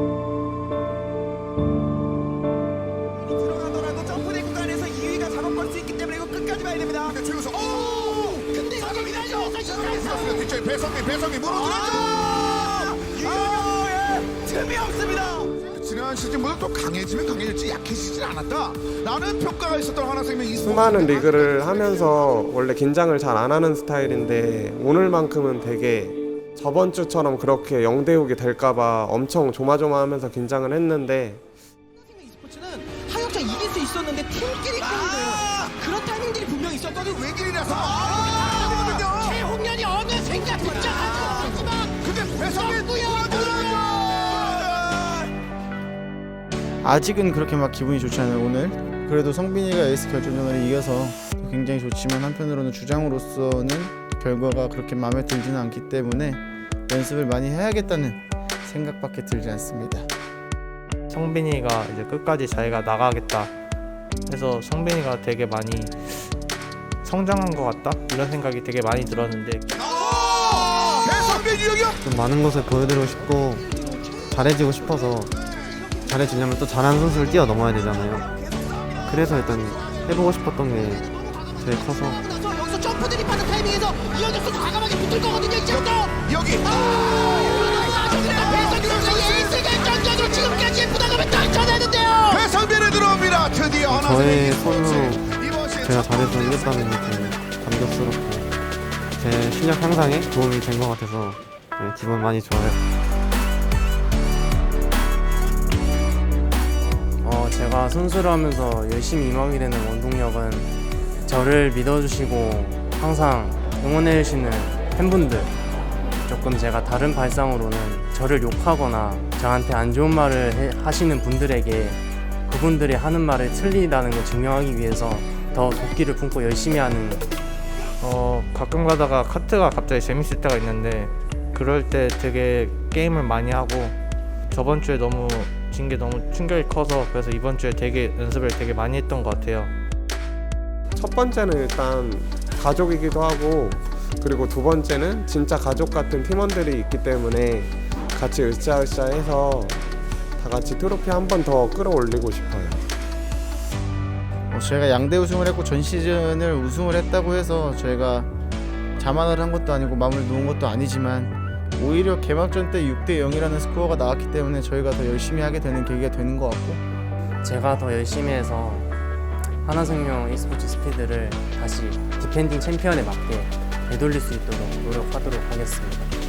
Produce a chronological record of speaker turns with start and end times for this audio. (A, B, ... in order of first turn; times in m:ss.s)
0:03.2-0:10.5 A
0:07.0-0:08.4 B
0:09.4-0:12.5 B
0:11.4-0:15.6 A
0:13.2-0:13.7 B
0:15.6-0:22.5 B
0:20.6-0:31.4 C
0:32.0-0:45.3 A
0:35.0-0:35.3 B
0:36.8-0:39.5 B
0:40.8-0:45.0 B
0:46.8-1:00.1 D
1:01.1-1:03.5 E
1:04.3-1:06.3 E
1:07.0-1:09.7 E
1:09.8-1:12.0 B
1:10.2-1:10.7 A
1:12.0-1:13.7 F
1:12.7-1:20.3 A
1:14.3-1:15.4 F
1:15.3-1:15.9 B
1:16.0-1:18.3 F
1:19.0-1:22.3 F
1:21.0-1:32.5 A
1:25.7-1:31.0 B
1:32.3-1:37.4 B
1:33.9-1:38.5 F
1:39.2-1:42.8 F
1:47.2-1:50.7 G
1:51.2-1:55.5 G
1:56.2-2:07.3 G
2:08.0-2:14.0 E
2:14.5-2:19.7 E
2:20.9-2:29.8 C
2:30.4-2:32.8 C
2:34.5-2:38.3 D
2:39.0-2:46.8 D
2:47.4-2:48.9 G
2:49.6-2:56.1 G